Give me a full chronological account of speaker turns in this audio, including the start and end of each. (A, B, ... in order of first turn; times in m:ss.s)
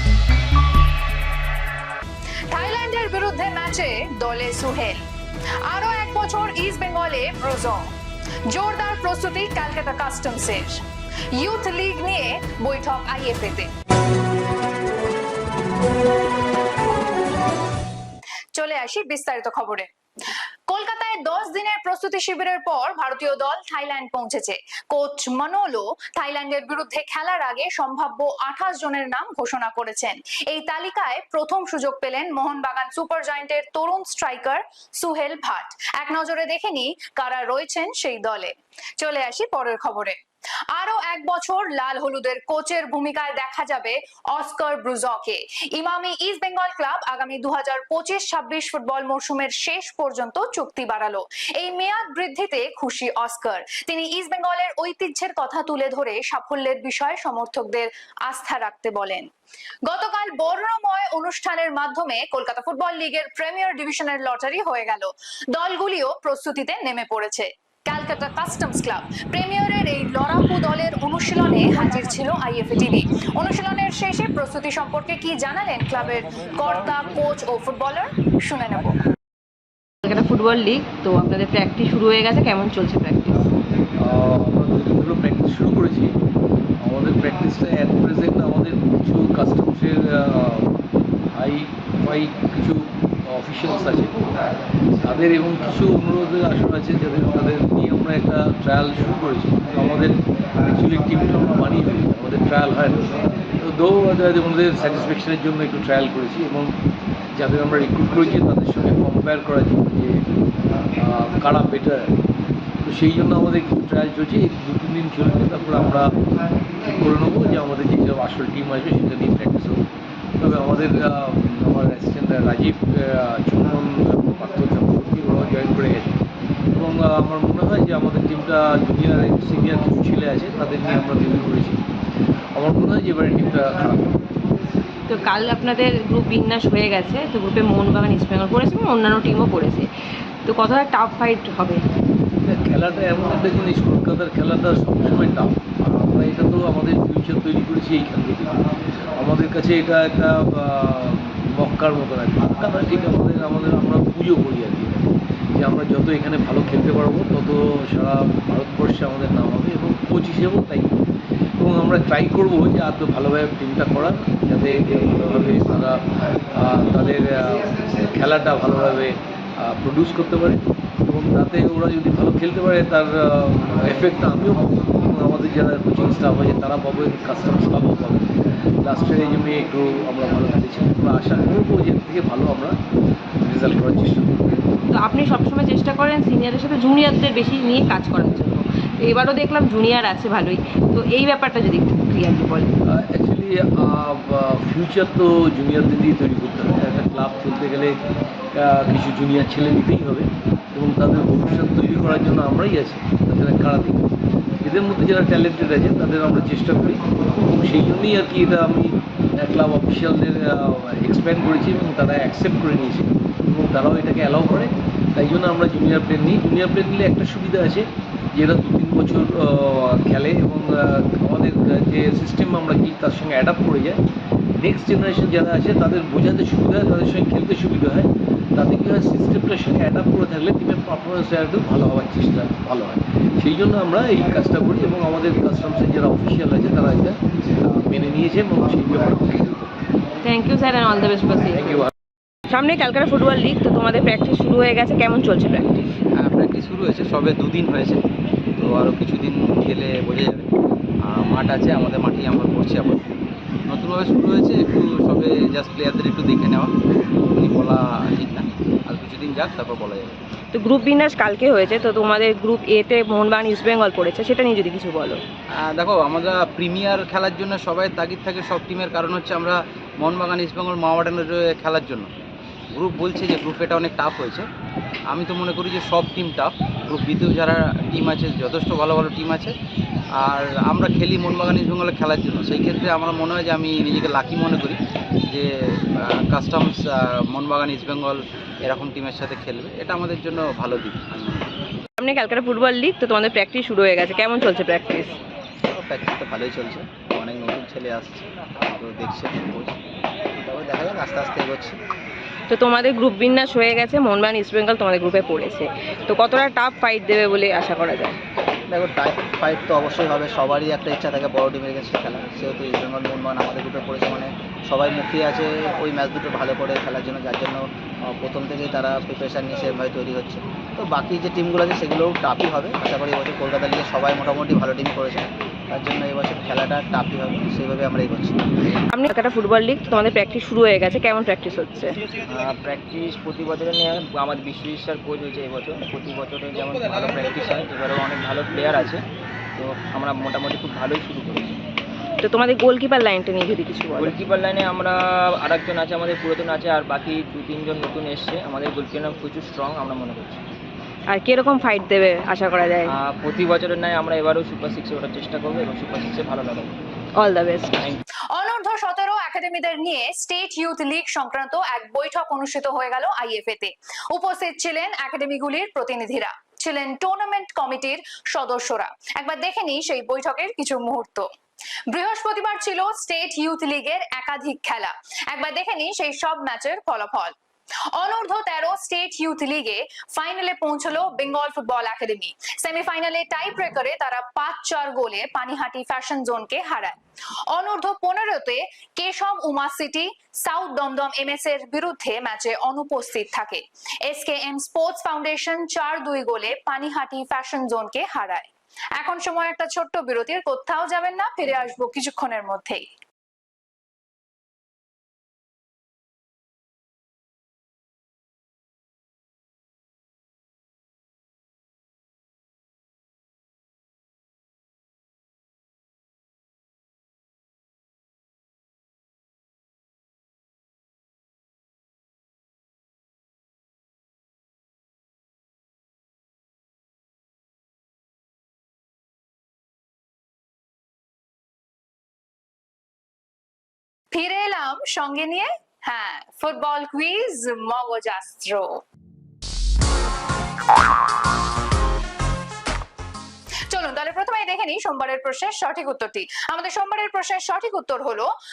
0:02.5-0:05.0 A
0:05.6-0:07.9 A
0:08.5-0:10.8 A
0:11.3-0:13.7 A
0:18.5-0:19.9 A
0:20.7-0:40.2 A
0:40.7-0:59.3 A
0:59.8-1:19.0 A
1:20.0-1:23.5 B
1:24.0-1:26.2 C
1:26.8-1:30.7 C
1:31.3-1:34.3 C
1:35.0-1:46.7 C
1:47.3-1:50.2 C
1:51.0-1:52.1 C
1:52.8-1:56.1 C
1:56.8-1:59.8 C
2:00.4-2:06.2 C
2:06.7-2:11.8 C
2:12.5-2:14.2 C
2:15.1-2:19.9 B
2:20.4-2:21.8 B
2:22.4-2:41.0 C
2:41.6-3:02.8 C
3:03.4-3:04.4 C
3:04.9-3:12.7 B
3:12.8-3:18.0 C
3:18.5-3:24.1 C
3:24.6-3:44.0 C
3:44.6-3:59.8 C
4:00.2-4:01.9 B
4:02.5-4:05.9 B
4:06.1-4:08.0 D
4:08.6-4:10.5 D
4:11.1-4:13.0 D
4:13.7-4:16.7 D
4:17.3-4:20.2 D
4:20.5-4:25.2 B
4:25.5-4:32.1 D
4:32.7-4:34.5 D
4:35.1-4:39.5 D
4:40.2-4:44.8 D
4:46.0-4:51.4 D
4:52.0-4:55.2 B
4:55.6-4:59.8 E
5:00.3-5:01.8 E
5:02.5-5:08.2 B
5:08.7-5:17.6 E
5:18.2-5:28.5 E
5:28.9-5:32.0 B
5:32.3-5:39.0 F
5:39.6-5:41.6 F
5:42.2-5:44.1 B
5:44.0-5:50.4 F
5:51.1-5:52.9 B
5:52.9-5:56.7 F
5:57.2-5:58.0 B
5:58.3-6:11.3 A
6:11.9-6:17.3 A
6:17.9-6:27.0 A
6:27.5-6:42.8 A
7:14.1-7:18.8 A
7:23.7-7:28.3 A